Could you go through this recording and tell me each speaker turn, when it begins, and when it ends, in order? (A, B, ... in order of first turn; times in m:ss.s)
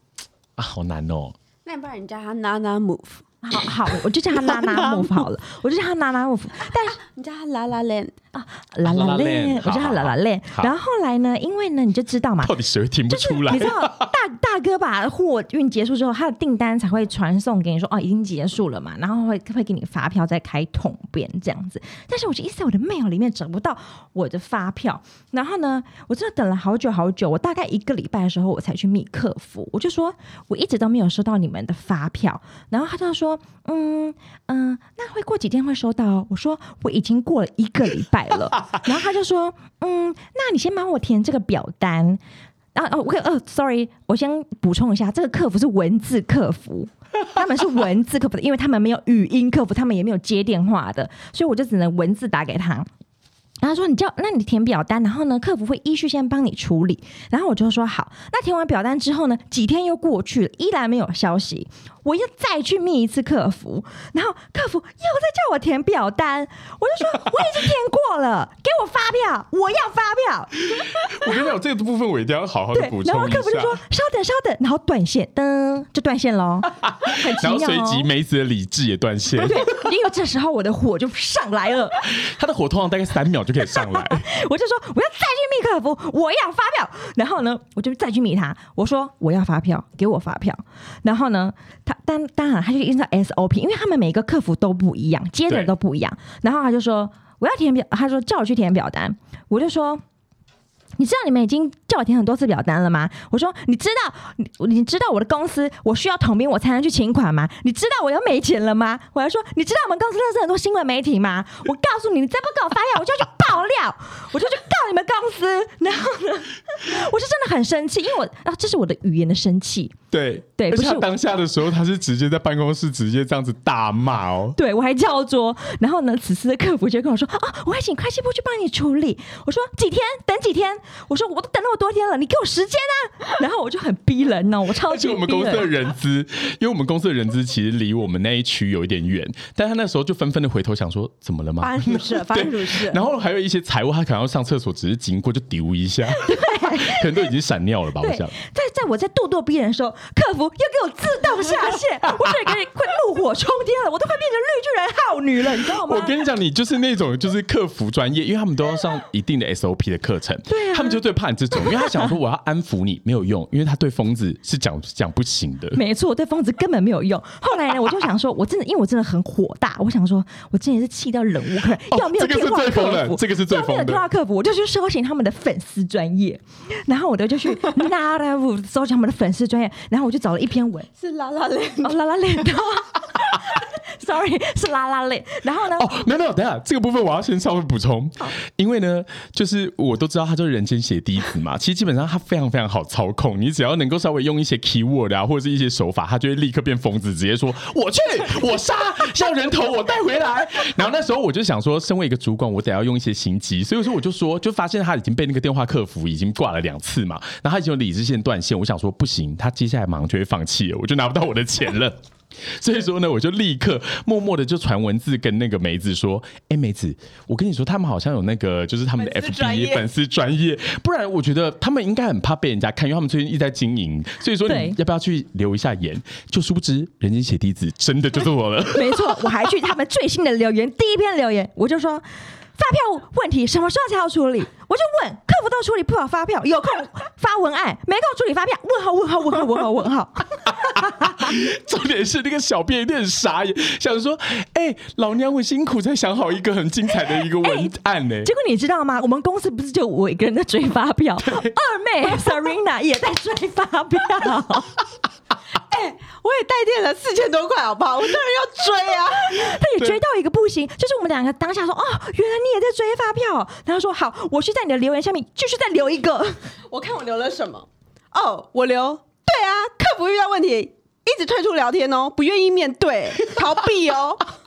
0:00.6-0:01.4 A
0:01.6-0:03.2 B
0:03.4-0:07.0 C
0:04.3-0:05.2 A
0:07.0-0:08.1 B
0:08.3-0:12.6 C
0:08.8-0:10.7 A
0:12.4-0:14.1 A
0:13.1-0:42.2 C
0:42.8-0:52.9 C
0:53.6-1:10.5 C
1:10.7-1:13.8 A
1:12.7-1:18.1 C
1:16.8-1:19.8 A
1:19.4-1:22.0 C
1:22.0-1:24.3 A
1:23.8-1:40.0 C
1:41.0-2:00.0 C
2:00.1-2:04.6 A
2:00.6-2:01.1 C
2:04.6-2:15.7 C
2:14.9-2:28.4 A
2:21.6-2:23.0 B
2:26.2-2:27.1 C
2:28.0-2:36.2 C
2:35.8-2:45.8 A
2:40.5-2:42.1 C
2:45.8-3:00.9 C
2:51.6-2:54.0 A
3:01.0-3:02.0 B
3:01.8-3:06.0 C
3:05.7-3:49.3 A
3:39.0-3:39.9 B
3:44.5-3:44.8 C
3:48.7-4:01.3 C
4:00.8-4:08.3 A
4:07.3-4:07.7 C
4:08.2-4:14.8 C
4:11.3-4:11.5 A
4:15.7-4:19.6 B
4:19.2-4:26.5 C
4:26.7-4:34.3 B